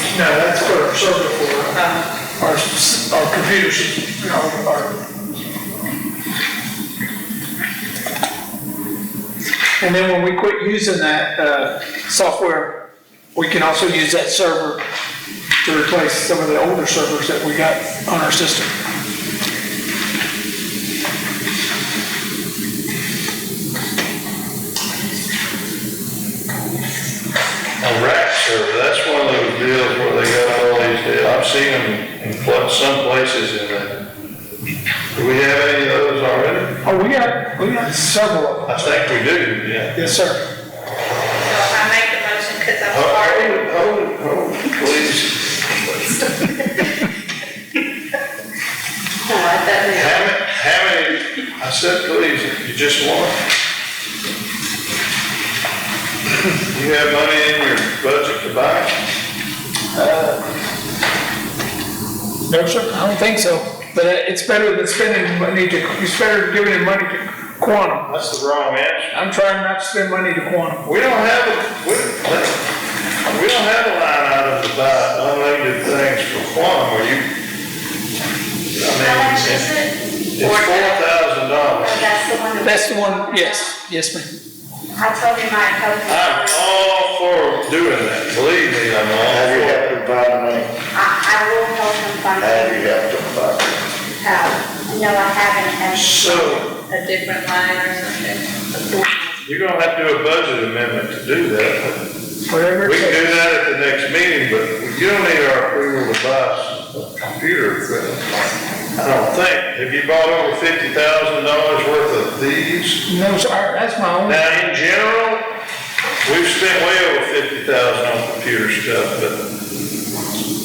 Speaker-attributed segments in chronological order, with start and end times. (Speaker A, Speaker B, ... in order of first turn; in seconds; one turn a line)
Speaker A: 0.1-1.8
Speaker B: 1.7-2.1
Speaker A: 2.4-4.9
Speaker A: 9.8-12.8
Speaker A: 13.3-14.8
Speaker A: 15.6-18.7
Speaker C: 27.8-34.0
Speaker C: 35.1-36.8
Speaker A: 36.8-38.8
Speaker C: 38.7-40.0
Speaker A: 40.0-40.4
Speaker B: 41.4-43.7
Speaker C: 42.9-45.4
Speaker B: 46.4-46.8
Speaker B: 49.3-50.2
Speaker C: 49.9-53.4
Speaker C: 56.7-58.9
Speaker A: 59.9-60.4
Speaker A: 62.5-68.1
Speaker C: 68.1-69.1
Speaker A: 69.1-70.9
Speaker C: 70.8-72.6
Speaker C: 73.3-77.3
Speaker C: 78.8-79.7
Speaker B: 79.6-81.1
Speaker C: 80.4-82.1
Speaker D: 81.8-83.7
Speaker A: 82.6-84.3
Speaker D: 84.9-86.6
Speaker C: 86.1-89.9
Speaker E: 89.3-90.7
Speaker D: 90.9-92.8
Speaker E: 92.4-93.8
Speaker D: 94.2-96.5
Speaker C: 95.9-96.7
Speaker B: 96.5-99.3
Speaker C: 99.5-102.0
Speaker A: 102.5-103.4
Speaker C: 102.8-108.2
Speaker C: 109.0-113.0
Speaker A: 113.1-114.5
Speaker C: 114.3-115.5
Speaker C: 116.2-119.4